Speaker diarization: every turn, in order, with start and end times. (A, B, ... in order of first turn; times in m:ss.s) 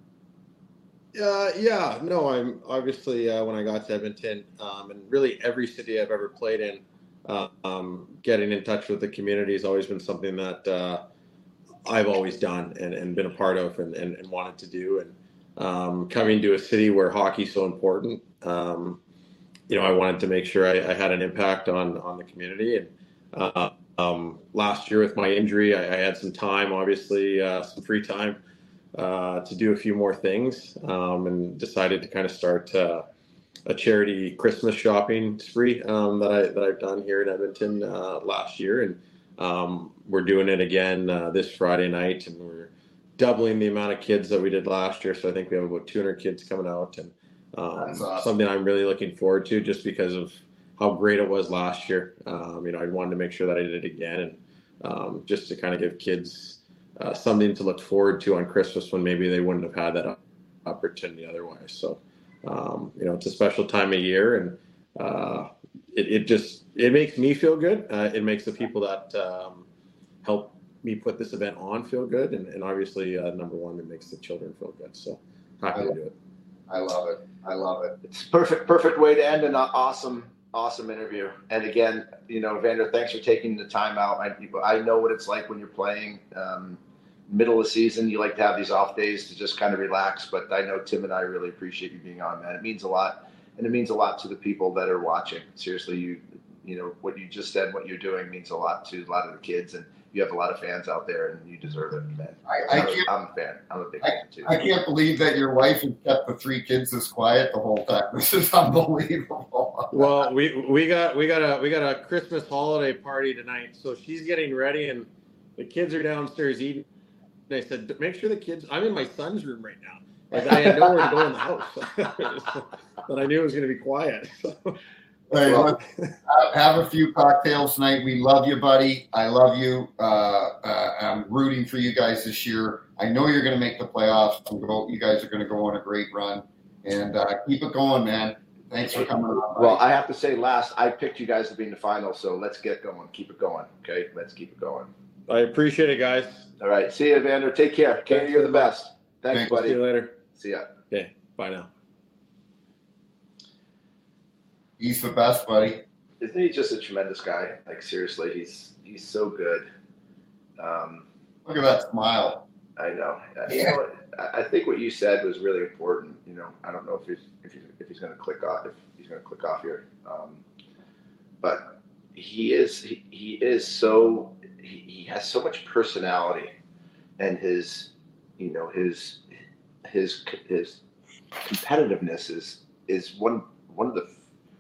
0:01.1-0:11.0 A
0:11.8-0:19.0 A
0:19.7-0:28.4 A
0:28.9-0:33.0 A
0:33.6-1:09.6 A
0:47.8-0:48.3 B
1:10.2-1:16.1 A
1:16.7-1:18.0 B
1:18.0-1:44.6 C
1:42.5-1:43.0 B
1:44.0-1:50.3 B
1:49.9-1:56.8 A
1:57.5-2:04.8 A
2:05.3-2:19.8 B
2:19.0-2:24.9 C
2:25.3-2:26.5 A
2:26.6-2:29.8 C
2:28.1-2:28.7 A
2:29.3-2:30.2 A
2:30.3-2:30.7 C
2:30.9-2:31.7 A
2:34.8-2:35.8 B
2:36.2-2:39.7 C
2:40.6-2:41.0 C
2:41.4-2:42.4 B
2:42.8-2:50.4 C
2:43.5-2:43.8 B
2:51.4-2:56.5 C
2:57.2-2:59.2 C
2:59.8-3:00.8 C
3:01.4-3:04.1 C